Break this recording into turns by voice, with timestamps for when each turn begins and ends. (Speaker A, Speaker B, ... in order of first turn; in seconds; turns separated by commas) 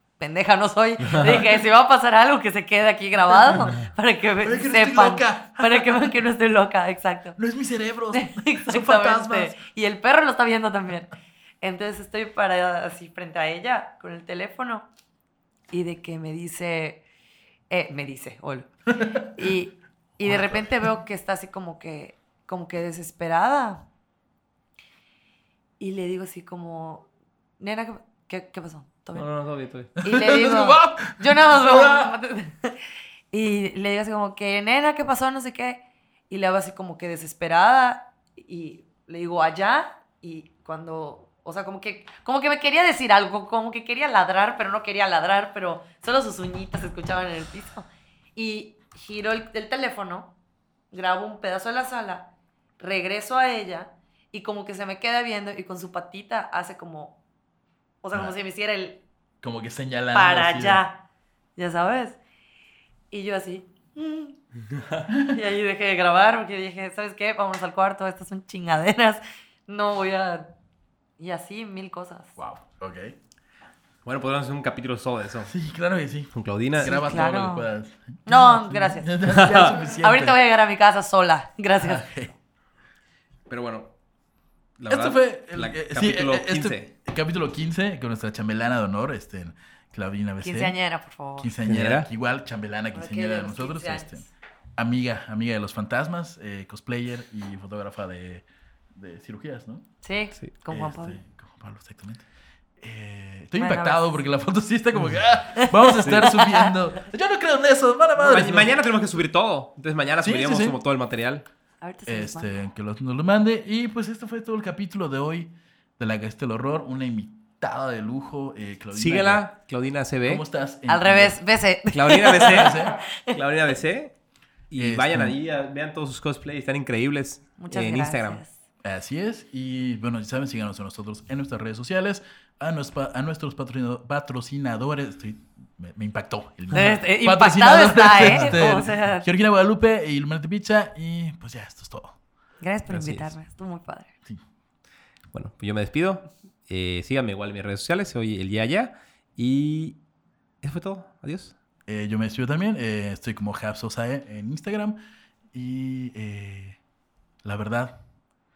Speaker A: 0.2-7.4, Speaker B: 1.1-1.4, Speaker B: 4.4-6.2, Speaker B: 7.4-9.6, Speaker A: 8.1-14.9, Speaker A: 15.7-17.0, Speaker A: 17.7-23.9, Speaker B: 19.0-19.3, Speaker B: 20.2-20.9, Speaker A: 25.8-27.1, Speaker A: 27.6-29.3, Speaker C: 29.1-29.9, Speaker B: 30.0-32.1, Speaker A: 30.0-50.4, Speaker A: 50.9-57.2, Speaker A: 58.0-59.0, Speaker B: 59.4-60.8, Speaker A: 60.1-61.0, Speaker A: 61.6-62.2, Speaker A: 63.1-64.4, Speaker B: 65.1-65.4, Speaker A: 65.3-70.5, Speaker A: 71.2-72.4, Speaker B: 72.4-73.2, Speaker C: 74.0-75.5, Speaker B: 75.5-80.4, Speaker C: 76.3-77.0, Speaker A: 76.8-77.7, Speaker A: 78.3-82.1, Speaker C: 79.3-79.8, Speaker B: 81.8-82.3, Speaker C: 83.5-83.9, Speaker C: 84.8-86.9, Speaker B: 84.9-90.8, Speaker A: 90.4-91.5, Speaker B: 91.4-94.3, Speaker C: 91.7-92.1, Speaker A: 92.9-94.3, Speaker B: 94.8-99.9, Speaker A: 100.0-101.2, Speaker B: 100.7-102.3, Speaker B: 102.8-108.8, Speaker A: 103.6-104.2, Speaker A: 105.6-106.7, Speaker C: 106.0-106.4, Speaker C: 108.2-111.5, Speaker B: 110.2-110.8, Speaker A: 111.8-112.6, Speaker B: 112.1-119.5, Speaker C: 119.0-120.4, Speaker B: 120.2-121.4, Speaker A: 120.9-123.3, Speaker C: 121.9-124.1, Speaker B: 122.4-123.0, Speaker C: 124.7-128.4, Speaker B: 124.8-125.4, Speaker A: 127.6-128.6, Speaker B: 128.8-142.2, Speaker A: 136.7-139.3, Speaker C: 138.2-138.6, Speaker A: 142.6-144.1, Speaker C: 142.9-143.3, Speaker C: 145.3-150.0, Speaker C: 150.6-151.6, Speaker B: 151.9-155.0, Speaker B: 155.5-156.8, Speaker B: 157.4-158.0